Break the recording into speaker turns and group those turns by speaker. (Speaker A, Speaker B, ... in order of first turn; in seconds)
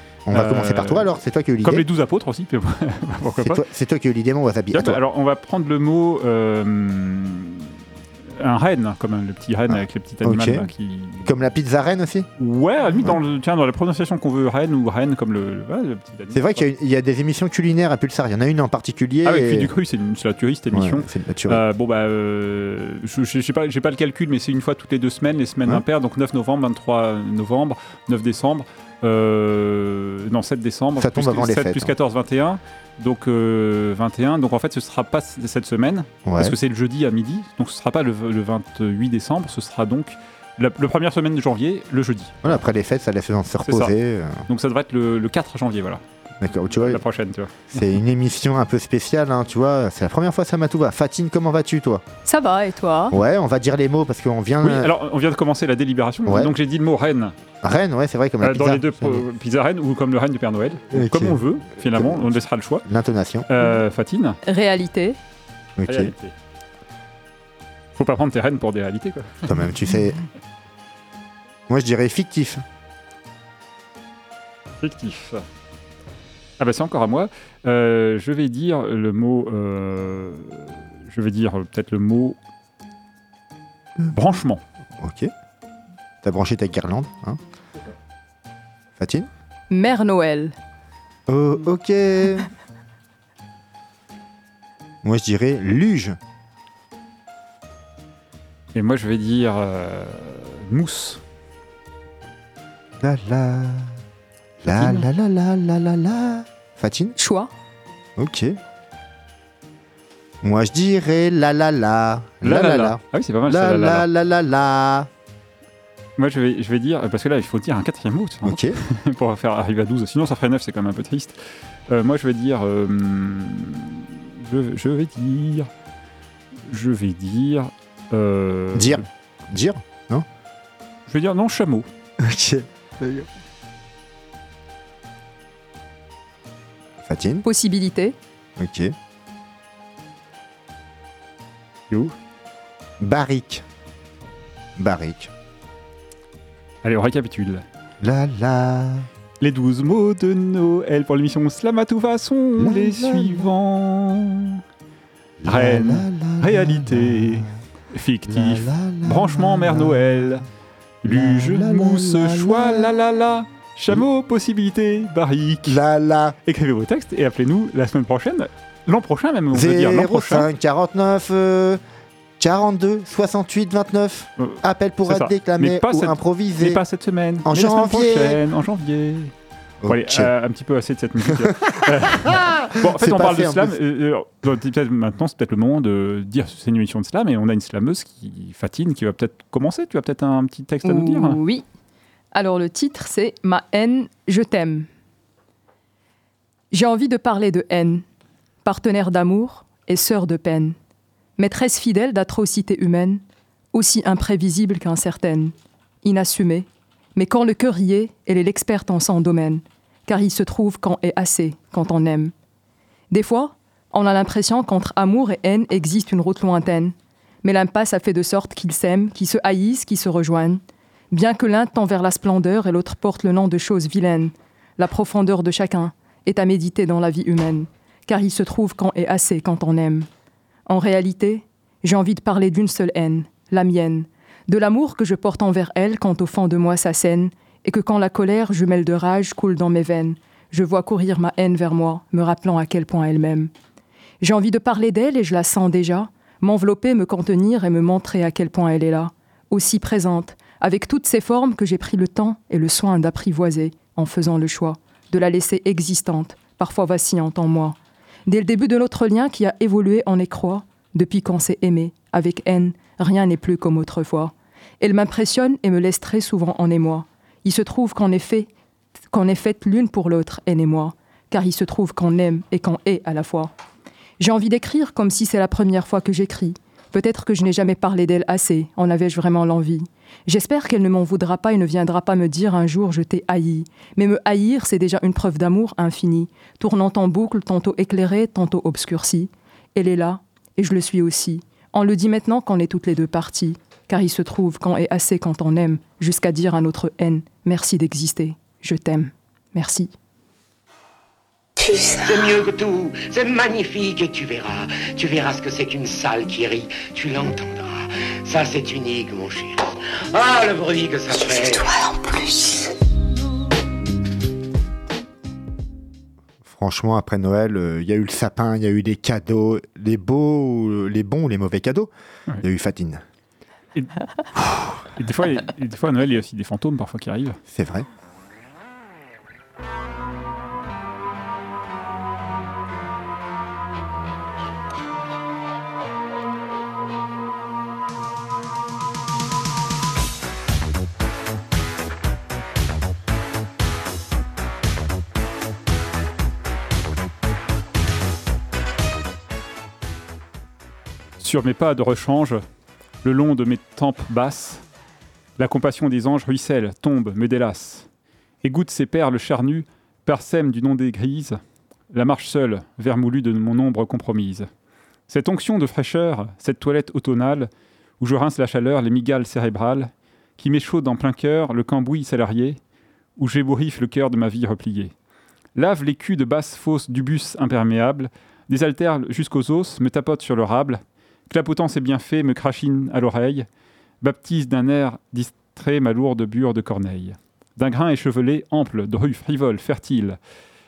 Speaker A: 0.3-1.8, 3.4-5.0, 9.7-10.7, 11.2-12.3, 16.3-19.7, 20.7-21.6, 31.0-31.9, 36.2-36.5, 42.4-44.4, 46.4-47.0, 47.7-52.0, 53.1-54.9, 56.2-56.5, 57.6-59.2, 60.9-61.4, 61.9-62.3, 62.9-63.5, 65.8-66.1, 69.5-70.2, 71.7-72.6, 85.0-85.3, 86.2-87.4, 89.0-89.3, 91.3-92.5, 95.0-96.2, 103.0-104.0, 104.6-107.1, 108.2-108.5, 110.4-115.1, 118.4-118.8, 128.7-130.2, 132.2-133.3, 137.0-137.4, 138.6-138.9, 143.0-143.6, 144.8-145.3, 148.0-149.1, 152.6-153.5, 155.4-157.5, 158.3-160.4, 161.1-162.9, 165.7-166.3, 169.5-171.8, 172.4-176.8, 177.4-178.4, 179.8-180.3, 182.1-183.7, 316.4-321.9, 322.4-323.0, 327.5-327.9
Speaker B: 0.3-1.1, 1.6-3.6, 4.7-7.7, 8.4-11.3, 12.4-16.6, 19.2-42.3, 43.6-43.9, 44.5-46.0, 46.7-47.8, 54.6-57.3, 58.4-62.8, 63.5-64.4, 65.9-66.3, 68.0-69.5, 74.8-75.4, 76.6-82.4, 84.1-84.6, 98.7-101.2, 104.7-105.1, 112.4-114.0, 116.2-125.7, 126.7-129.0, 131.1-131.9, 146.8-147.6, 149.4-154.6, 155.4-160.4, 161.0-165.8, 166.4-170.5, 174.4-179.3, 179.9-191.4, 323.7-327.4, 351.2-352.4, 353.0-354.6, 355.4-357.9, 358.4-361.4, 361.9-364.5, 365.1-372.6, 373.2-374.9, 375.5-383.5, 384.0-390.2
Speaker C: 52.2-53.1, 64.5-65.2, 89.7-90.5, 107.2-107.5, 137.4-138.1, 190.8-191.6, 192.3-194.9, 196.7-198.0, 198.6-200.8, 201.4-203.2, 203.7-212.3, 213.1-230.1, 230.7-243.5, 244.2-257.8, 258.3-268.5, 269.1-273.5, 274.2-299.9
Speaker D: 301.6-302.4, 311.1-312.7
Speaker E: 302.1-309.6, 310.1-311.7